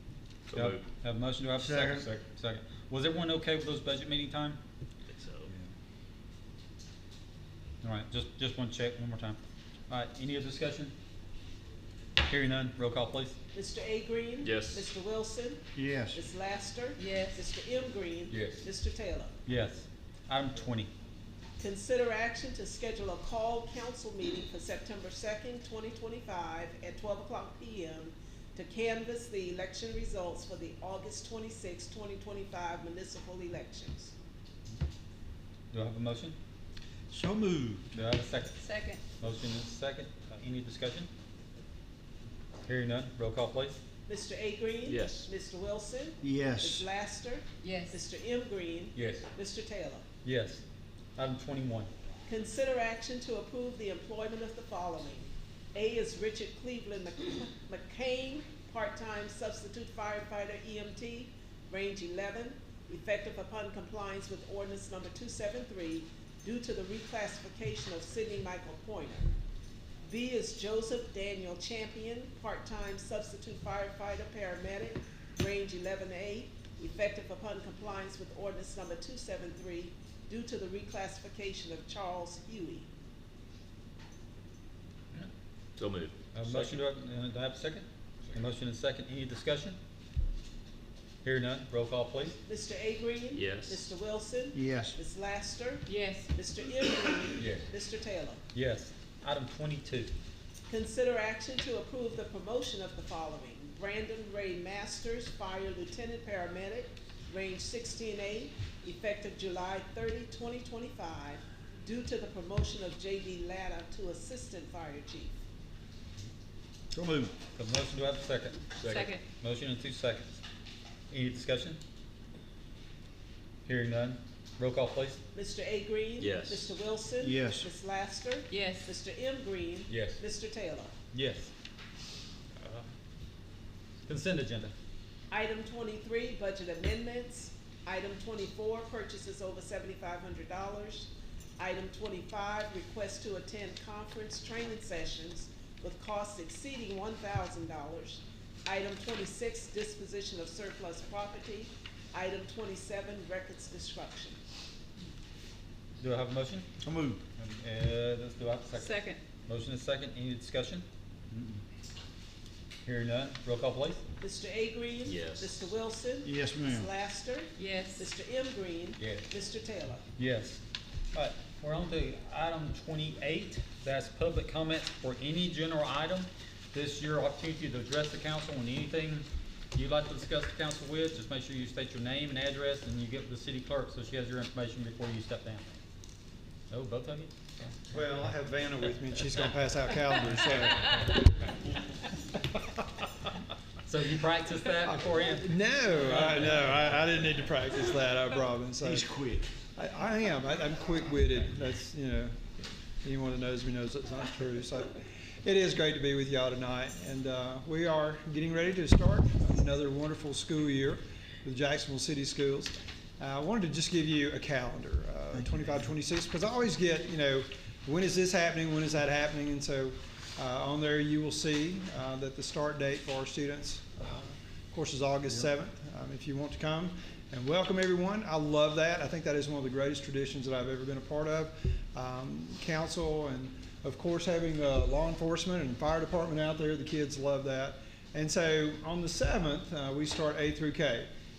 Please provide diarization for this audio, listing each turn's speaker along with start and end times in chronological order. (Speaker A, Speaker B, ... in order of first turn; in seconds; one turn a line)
Speaker A: 0.5-0.8
Speaker B: 0.5-4.6
Speaker C: 1.6-2.1
Speaker A: 5.1-5.5
Speaker B: 7.8-9.4
Speaker B: 9.9-10.9
Speaker B: 12.2-13.4
Speaker D: 13.5-19.4
Speaker A: 14.4-14.9
Speaker C: 15.8-16.2
Speaker E: 17.0-17.4
Speaker A: 18.3-18.6
Speaker B: 19.5-20.9
Speaker D: 21.6-34.1
Speaker B: 35.7-36.4
Speaker C: 37.1-37.9
Speaker B: 37.9-38.6
Speaker E: 38.6-39.0
Speaker B: 39.2-41.1
Speaker B: 42.7-43.8
Speaker D: 44.1-50.0
Speaker A: 44.9-45.2
Speaker C: 46.2-46.9
Speaker E: 47.6-48.0
Speaker B: 50.2-50.6
Speaker B: 51.2-51.9
Speaker D: 52.3-69.3
Speaker D: 70.1-82.9
Speaker A: 85.8-86.8
Speaker B: 86.3-89.8
Speaker B: 91.2-92.4
Speaker D: 92.5-98.4
Speaker A: 93.3-93.9
Speaker C: 94.5-95.0
Speaker E: 95.9-96.3
Speaker B: 98.5-100.1
Speaker D: 100.7-115.3
Speaker C: 116.9-117.3
Speaker B: 117.5-118.7
Speaker A: 118.8-119.2
Speaker E: 118.9-119.2
Speaker B: 119.3-120.4
Speaker B: 121.1-121.8
Speaker B: 123.7-125.2
Speaker D: 125.3-130.9
Speaker A: 126.2-126.7
Speaker C: 127.2-127.7
Speaker E: 128.5-128.9
Speaker B: 129.9-130.2
Speaker B: 131.1-131.5
Speaker B: 132.6-132.9
Speaker B: 134.1-134.7
Speaker D: 135.3-154.4
Speaker B: 156.0-156.7
Speaker C: 156.8-157.2
Speaker B: 157.4-160.8
Speaker E: 158.8-159.2
Speaker C: 161.3-161.6
Speaker B: 162.8-164.0
Speaker D: 164.2-170.0
Speaker A: 165.1-165.7
Speaker C: 166.2-166.9
Speaker E: 167.6-168.1
Speaker B: 170.2-170.6
Speaker B: 171.1-185.7
Speaker B: 186.7-187.7
Speaker F: 187.9-191.4
Speaker B: 193.8-196.9
Speaker F: 195.2-199.1
Speaker C: 198.8-199.5
Speaker F: 199.8-202.4
Speaker F: 203.0-241.1